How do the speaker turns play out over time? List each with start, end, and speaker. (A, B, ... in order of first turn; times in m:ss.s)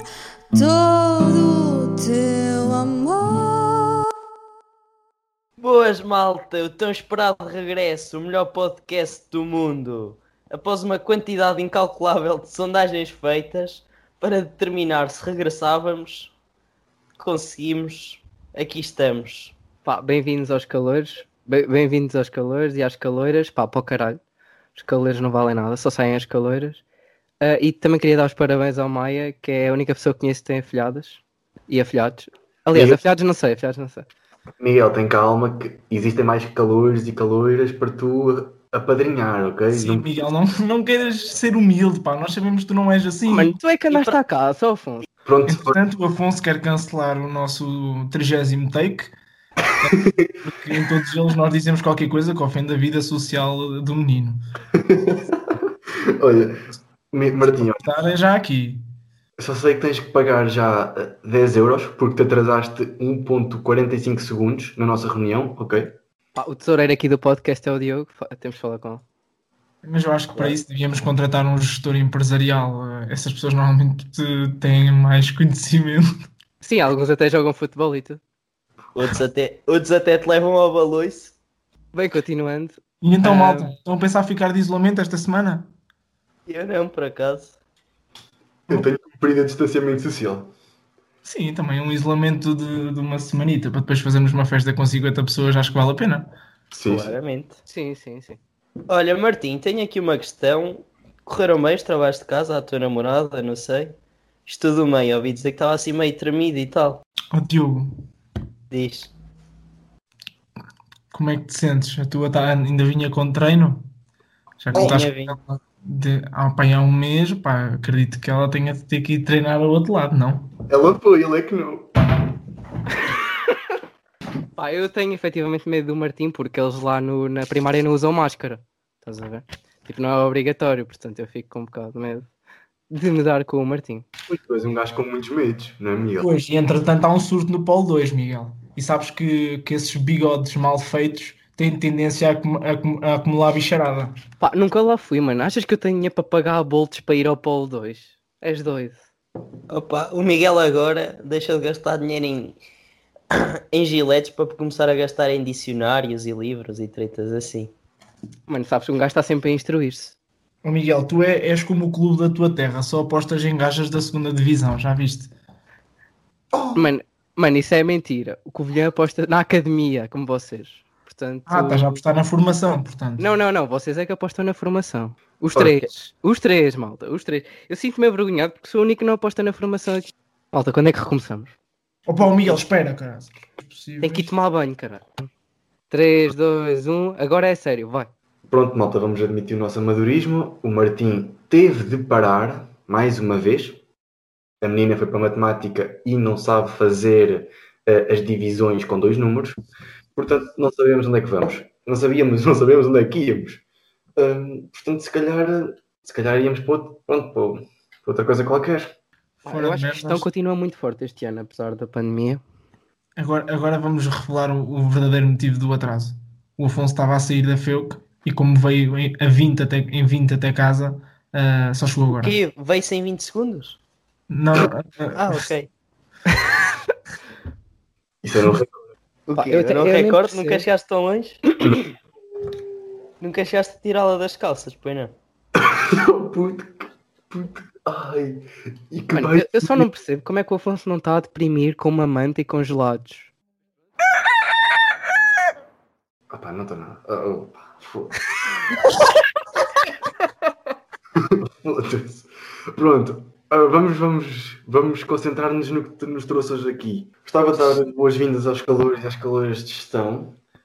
0:00.5-0:04.0 A
0:05.6-0:16.3 B
0:17.2-0:19.5 B
0:19.8-0:24.2 C
0:24.7-0:26.8 C
0:27.4-0:34.1 C
0:32.7-0:33.0 D
0:34.6-0:40.1 D
0:39.7-0:43.6 E
0:43.3-0:45.1 C
0:43.9-0:44.2 B
0:45.2-0:45.8 D
0:45.4-0:49.1 E
0:49.8-0:54.4 E
0:54.7-0:55.6 D
0:56.2-0:56.5 D
0:57.1-0:57.8 D
0:57.4-0:58.8 E
0:59.4-1:05.9 D
1:06.4-1:09.0 C
1:09.8-1:16.0 E
1:16.6-1:18.2 C
1:18.9-1:21.4 B
1:21.9-1:23.7 C
1:23.0-1:25.7 E
1:26.5-1:27.6 B
1:28.7-1:30.5 D
1:31.2-1:36.3 E
1:36.7-1:37.1 D
1:36.8-1:37.6 B
1:37.6-1:38.4 C
1:38.9-1:47.0 B
1:47.3-1:47.9 E
1:48.7-1:49.1 B
1:51.1-1:53.8 E
1:54.6-2:00.5 E
1:54.7-1:55.4 B
2:00.7-2:01.9 D
2:04.5-2:12.3 C
2:12.9-2:14.0 C
2:14.3-2:16.3 D
2:16.2-2:24.1 E
2:24.4-2:29.0 C
2:29.7-2:32.6 B
2:33.3-2:37.7 B
2:38.5-2:40.2 C
2:40.6-2:45.3 E
2:46.5-2:46.8 D
2:46.7-2:52.0 C
2:51.5-2:53.3 E
2:53.2-3:01.5 C
2:55.5-2:55.8 D
3:02.0-3:04.3 E
3:02.2-3:02.6 C
3:04.0-3:05.3 C
3:05.9-3:08.1 C
3:08.5-3:13.8 D
3:14.6-3:19.6 D
3:20.1-3:23.6 D
3:24.2-3:28.9 D
3:29.4-3:32.4 C
3:29.5-3:30.2 E
3:33.2-3:42.4 E
3:42.2-3:43.8 B
3:44.3-3:45.4 E
3:45.1-3:45.7 B
3:48.2-3:48.7 D
3:49.3-3:51.4 B
3:49.3-3:50.6 C
3:53.2-3:55.1 B
3:55.6-3:59.8 D
3:59.1-4:03.3 C
4:06.3-4:08.1 D
4:11.6-4:20.4 D